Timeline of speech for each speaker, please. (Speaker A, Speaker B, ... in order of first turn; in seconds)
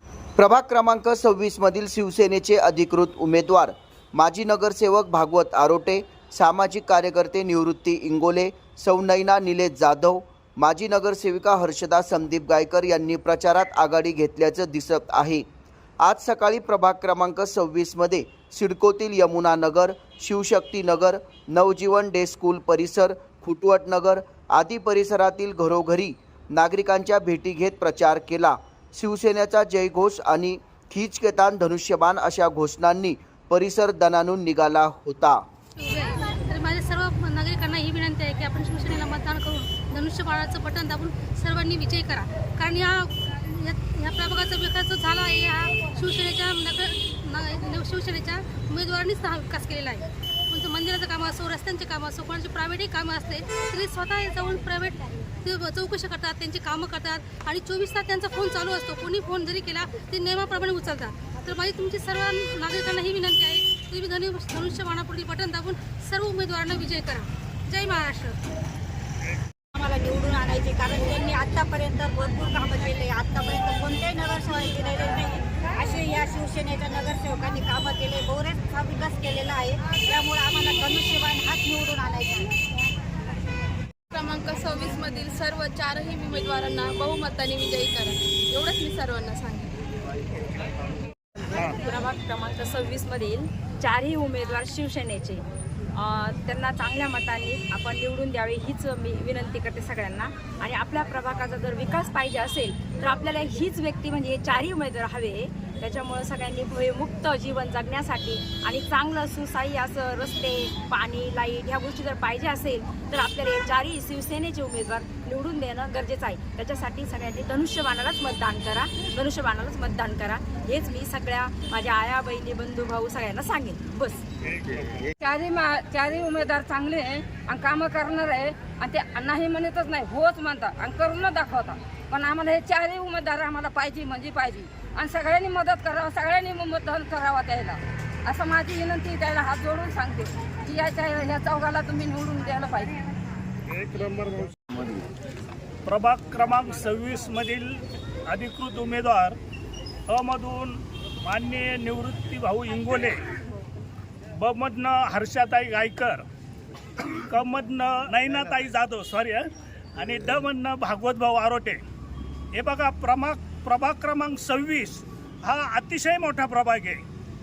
Speaker A: 0.4-15.4, 16.0-35.4
Speaker B: 35.9-50.0, 50.5-68.3
Speaker C: 69.7-82.5
Speaker D: 84.1-89.7
Speaker E: 91.5-124.2
Speaker F: 125.2-143.2
Speaker G: 145.8-149.4, 150.1-153.2, 154.4-156.2, 157.0-161.8, 162.5-167.0